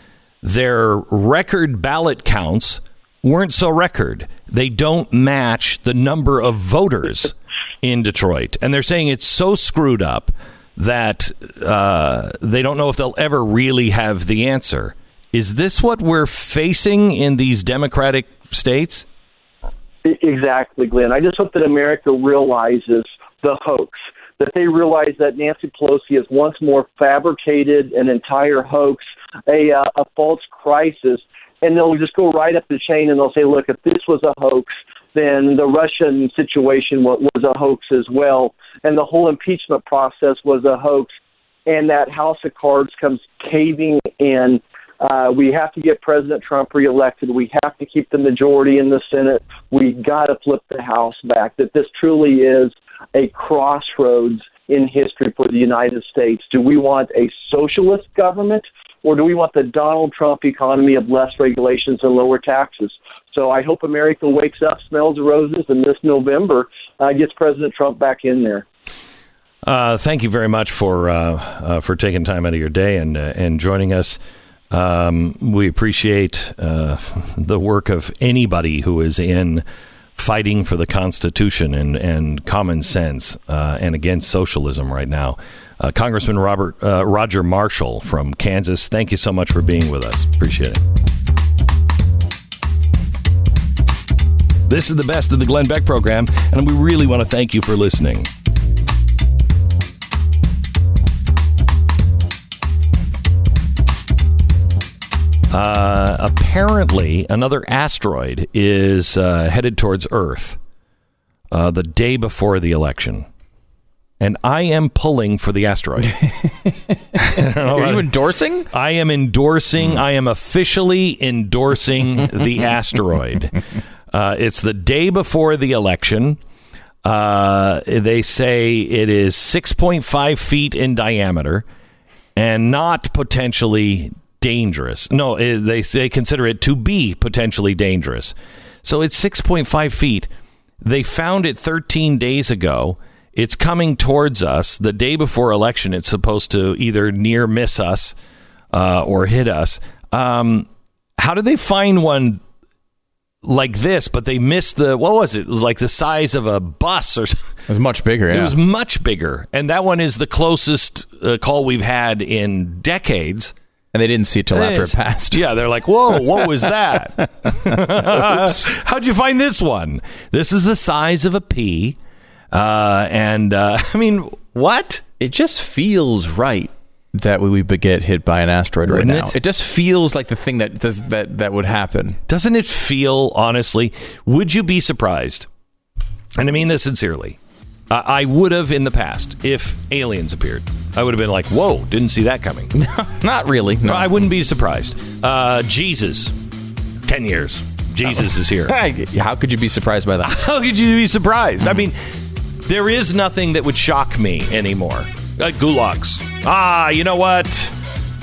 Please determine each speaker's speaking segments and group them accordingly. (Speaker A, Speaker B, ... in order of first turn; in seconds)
Speaker A: 0.4-19.1, 69.6-74.2, 74.7-79.6, 80.2-90.8, 94.7-98.3, 105.5-110.6, 111.5-113.3, 114.2-116.2, 117.2-118.1, 118.7-123.5, 124.1-126.4, 127.0-131.6, 132.3-140.3, 140.8-148.1, 148.7-150.7, 151.2-152.4, 153.4-157.5, 158.3-163.5, 164.5-172.0, 172.5-175.0, 178.8-179.3, 182.3-185.5, 186.4-187.4, 187.9-192.7, 193.8-196.3, 197.1-198.8, 200.2-201.9, 202.6-207.7
Speaker B: 20.0-41.1, 41.7-68.6
Speaker C: 117.5-118.7, 157.7-158.5, 163.9-165.4, 168.1-168.4, 175.2-182.2, 192.7-194.2, 198.7-200.4